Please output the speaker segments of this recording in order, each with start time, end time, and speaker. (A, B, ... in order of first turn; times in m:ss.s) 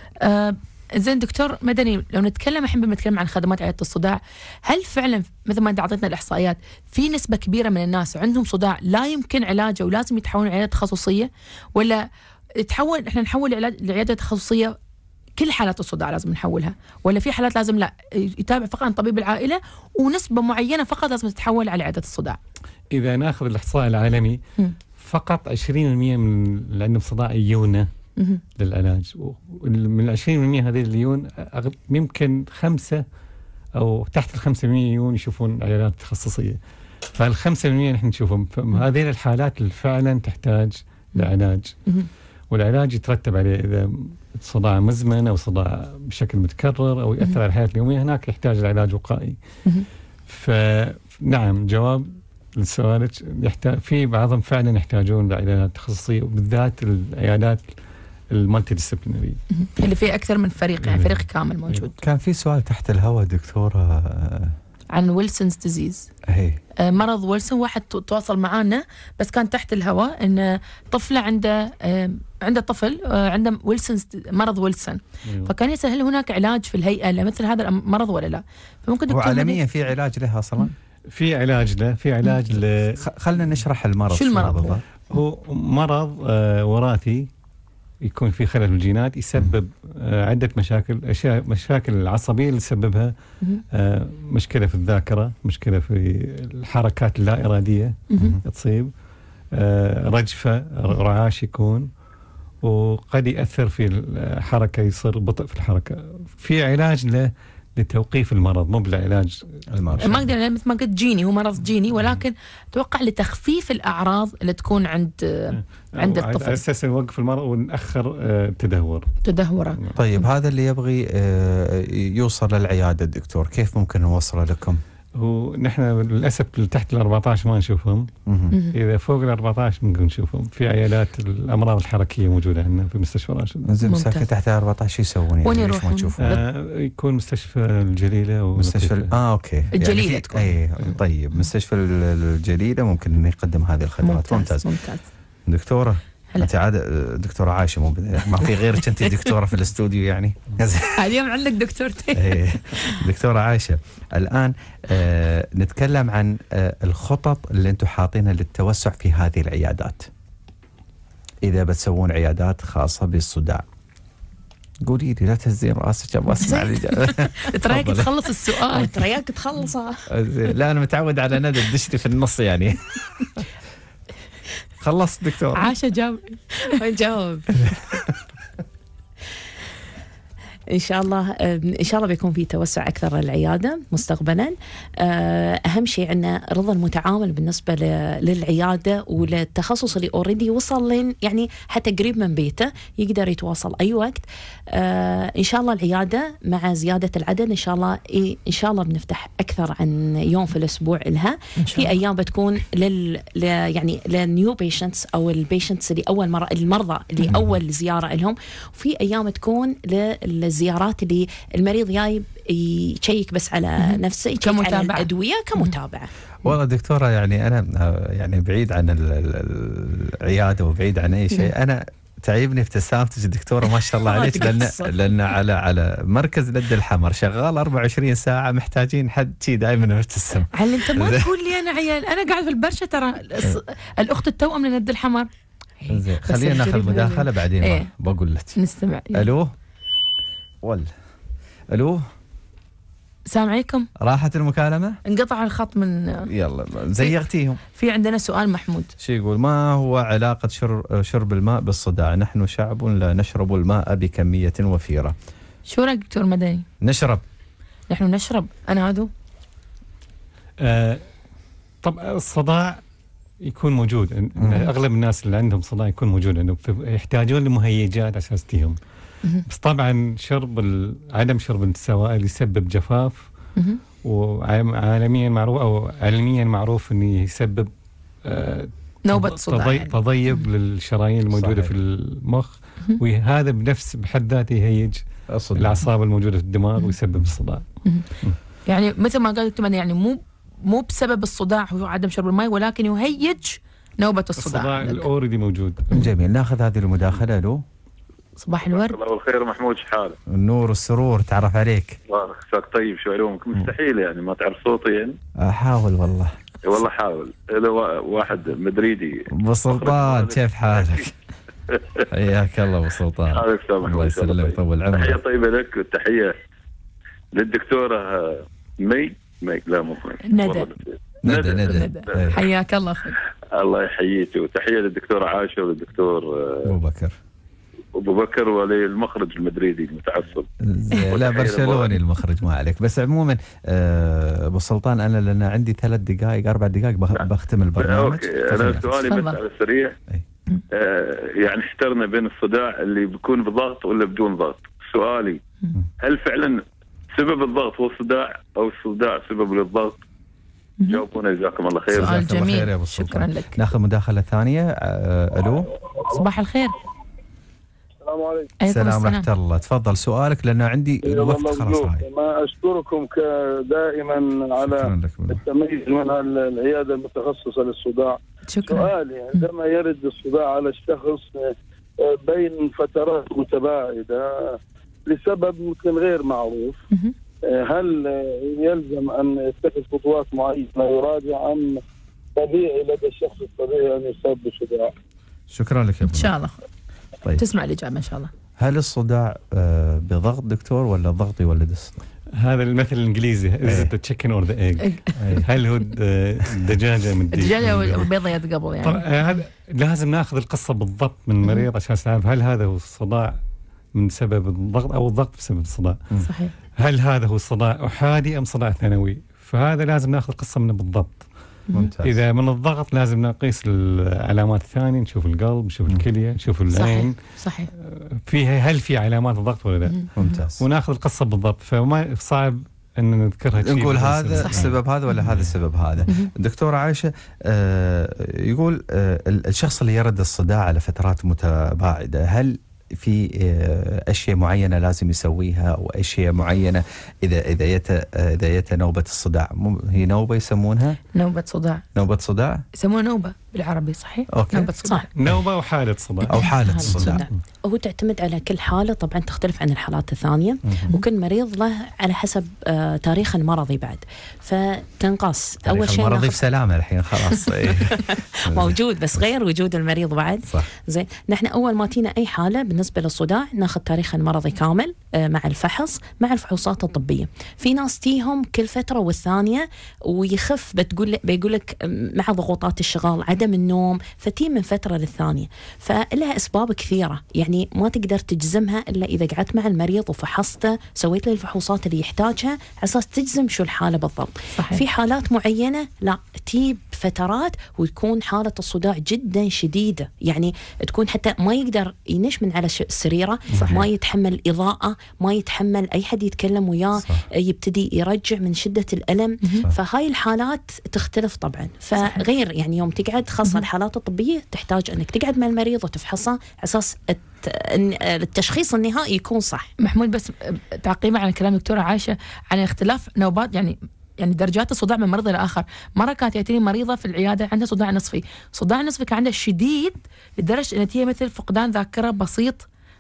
0:00.2-0:12.0 A
0:12.6-0:14.8 A
0:15.4-0:22.4 A
0:22.9-0:24.4 B
0:25.0-0:27.9 B
0:28.6-0:33.0 B
0:33.8-0:36.6 B
0:37.2-0:41.8 B
0:42.5-0:49.4 B
0:50.3-0:57.7 B
0:58.3-0:59.4 B
0:59.5-1:02.0 A
1:00.8-1:01.8 B
1:02.0-1:04.6 C
1:04.9-1:06.1 A
1:06.3-1:06.6 C
1:06.8-1:19.6 A
1:15.3-1:15.5 B
1:19.1-1:20.7 C
1:21.1-1:23.0 B
1:23.0-1:24.8 C
1:24.1-1:24.8 A
1:25.0-1:27.3 B
1:28.0-1:33.1 B
1:33.7-1:38.9 B
1:39.5-1:41.9 B
1:42.6-1:50.0 B
1:49.7-1:50.3 C
1:50.0-1:56.6 A
1:55.5-1:59.1 B
1:59.2-1:59.8 A
2:00.0-2:04.8 C
2:05.2-2:08.1 B
2:08.3-2:08.6 C
2:08.7-2:13.7 B
2:13.7-2:16.2 C
2:13.9-2:14.3 A
2:15.4-2:16.4 A
2:16.2-2:19.1 B
2:18.6-2:24.7 C
2:19.8-2:20.4 A
2:24.0-2:25.0 A
2:25.5-2:31.1 C
2:31.0-2:32.4 A
2:32.1-2:40.1 C
2:41.4-2:43.6 C
2:44.8-2:48.2 C
2:46.4-2:49.0 A
2:48.7-2:50.1 D
2:50.1-2:53.4 C
2:54.8-2:55.7 C
2:55.6-2:56.7 A
2:56.6-2:57.8 D
2:57.7-2:58.0 C
3:00.7-3:36.1 D
3:21.6-3:21.9 A
3:33.8-3:35.7 A
3:36.4-3:51.3 C
3:44.0-3:45.0 D
3:50.5-3:55.3 A
3:55.8-3:57.9 A
3:55.9-3:58.6 C
3:58.6-3:59.3 A
3:59.1-3:59.5 C
4:00.6-4:00.9 C
4:01.7-4:02.1 C
4:03.3-4:03.9 A
4:04.0-4:05.0 C
4:05.1-4:06.3 A
4:06.3-4:07.6 C
4:07.8-4:08.9 A
4:09.0-4:15.2 C
4:15.7-4:16.6 A
4:16.8-4:17.2 C
4:17.9-4:19.1 A
4:20.6-4:21.1 B
4:21.8-4:22.8 B
4:23.4-4:28.8 B
4:24.4-4:24.7 C
4:29.5-4:33.3 B
4:34.0-4:37.7 B
4:38.2-4:45.0 B
4:39.0-4:39.9 A
4:41.3-4:41.7 C
4:45.3-4:45.8 C
4:45.6-4:47.6 B
4:48.7-4:55.1 A
4:54.4-4:56.0 B
4:55.9-4:57.6 C
4:58.4-4:59.0 A
4:58.7-5:00.2 E
5:00.3-5:02.0 C
5:02.1-5:05.2 E
5:05.4-5:06.3 C
5:06.7-5:11.1 E
5:09.3-5:11.1 C
5:11.7-5:12.0 E
5:12.1-5:15.2 C
5:13.3-5:16.4 E
5:17.3-5:22.3 E
5:20.2-5:20.7 A
5:21.2-5:22.4 C
5:21.6-5:23.2 A
5:23.6-5:26.7 E
5:26.6-5:27.2 C
5:28.0-5:30.5 E
5:30.6-5:39.0 C
5:31.1-5:32.0 E
5:37.1-5:40.0 E
5:39.1-5:39.4 A
5:40.7-5:45.4 E
5:46.0-5:46.6 E
5:47.2-5:50.0 E
5:50.9-5:52.2 E
5:51.9-5:55.7 C
5:51.9-5:53.6 A
5:56.1-5:56.8 A
5:58.0-5:58.5 F
5:58.6-5:59.3 A
5:58.7-6:02.0 C
6:01.0-6:16.8 F
6:04.6-6:05.4 C
6:08.5-6:09.5 A
6:17.5-6:21.8 F
6:22.4-6:24.9 F
6:25.5-6:26.3 C
6:26.1-6:26.5 A
6:27.4-6:28.3 A
6:28.6-6:32.0 C
6:32.4-6:38.1 B
6:33.6-6:33.9 C
6:35.2-6:35.5 C
6:37.3-6:39.0 A
6:37.6-6:38.0 C
6:38.8-6:43.4 B
6:44.0-6:46.0 B
6:46.2-6:46.5 A
6:46.8-6:51.3 B
6:51.8-6:52.2 C
6:52.0-6:57.2 B
6:56.7-6:57.7 A
6:57.8-7:05.5 B
7:00.2-7:00.6 C
7:03.6-7:21.0 C
7:04.4-7:04.7 A
7:21.2-7:21.8 A
7:22.0-7:22.6 C
7:22.8-7:25.1 A
7:24.3-7:24.7 C
7:25.2-7:27.3 B
7:26.3-7:27.2 C
7:26.8-7:36.4 D
7:35.6-7:39.2 C
7:37.9-8:29.7 D
8:04.6-8:04.8 A
8:13.5-8:13.8 C
8:13.5-8:13.8 A
8:17.0-8:17.3 C
8:29.8-8:42.7 A